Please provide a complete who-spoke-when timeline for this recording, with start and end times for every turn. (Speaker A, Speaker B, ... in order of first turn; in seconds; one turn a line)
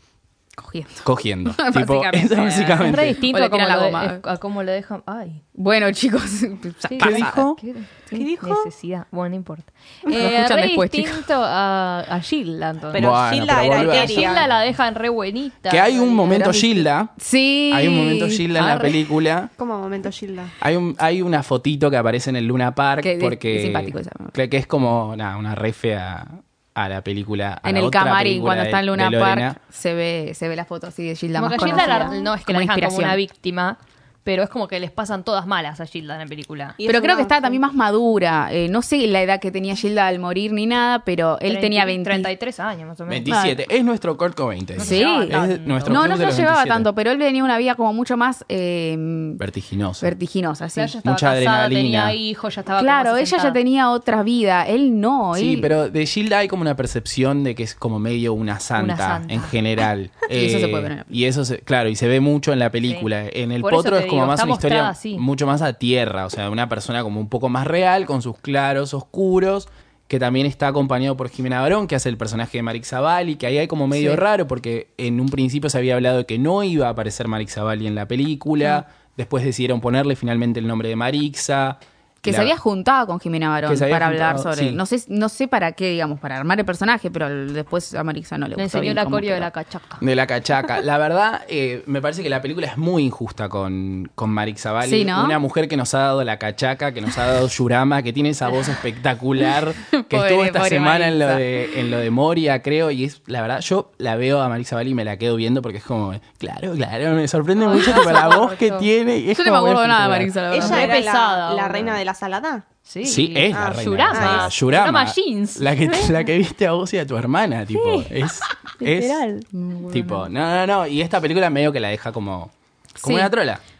Speaker A: 0.6-4.2
Speaker B: 1.0-3.2
Speaker C: 2.8-5.4
Speaker A: 5.5-7.4
Speaker C: 6.9-13.1
Speaker B: 7.0-7.6
Speaker D: 8.1-8.7
Speaker A: 10.1-11.2
Speaker D: 12.9-14.4
Speaker B: 12.9-14.5
Speaker C: 13.7-16.6
Speaker B: 15.7-17.1
Speaker A: 16.3-18.5
Speaker B: 17.7-19.5
Speaker C: 18.5-19.0
Speaker D: 19.6-20.5
Speaker B: 20.6-29.6
Speaker A: 23.0-24.3
Speaker A: 27.6-33.2
Speaker C: 31.4-36.8
Speaker D: 31.6-32.1
Speaker D: 36.8-37.6
Speaker A: 36.9-42.3
Speaker C: 41.5-43.4
Speaker B: 43.1-46.9
Speaker A: 43.3-43.6
Speaker C: 44.8-46.0
Speaker A: 44.8-49.4
Speaker B: 49.4-50.1
Speaker A: 50.0-51.0
Speaker C: 50.8-53.6
Speaker B: 51.0-52.2
Speaker A: 52.8-55.7
Speaker B: 55.3-82.5
Speaker C: 58.7-59.5
Speaker A: 60.3-61.1
Speaker C: 63.6-65.2
Speaker A: 73.9-74.2
Speaker A: 82.2-89.5
Speaker B: 83.7-84.8
Speaker C: 88.5-90.0
Speaker B: 90.0-110.4
Speaker A: 94.8-95.4
Speaker A: 99.9-101.5
Speaker C: 107.6-108.9
Speaker A: 109.3-111.0
Speaker D: 110.5-112.6
Speaker C: 110.5-112.0
Speaker C: 112.8-116.1
Speaker B: 113.0-119.2
Speaker D: 113.5-114.5
Speaker C: 117.7-119.5
Speaker A: 119.5-120.3
Speaker B: 119.9-123.6
Speaker A: 123.0-123.3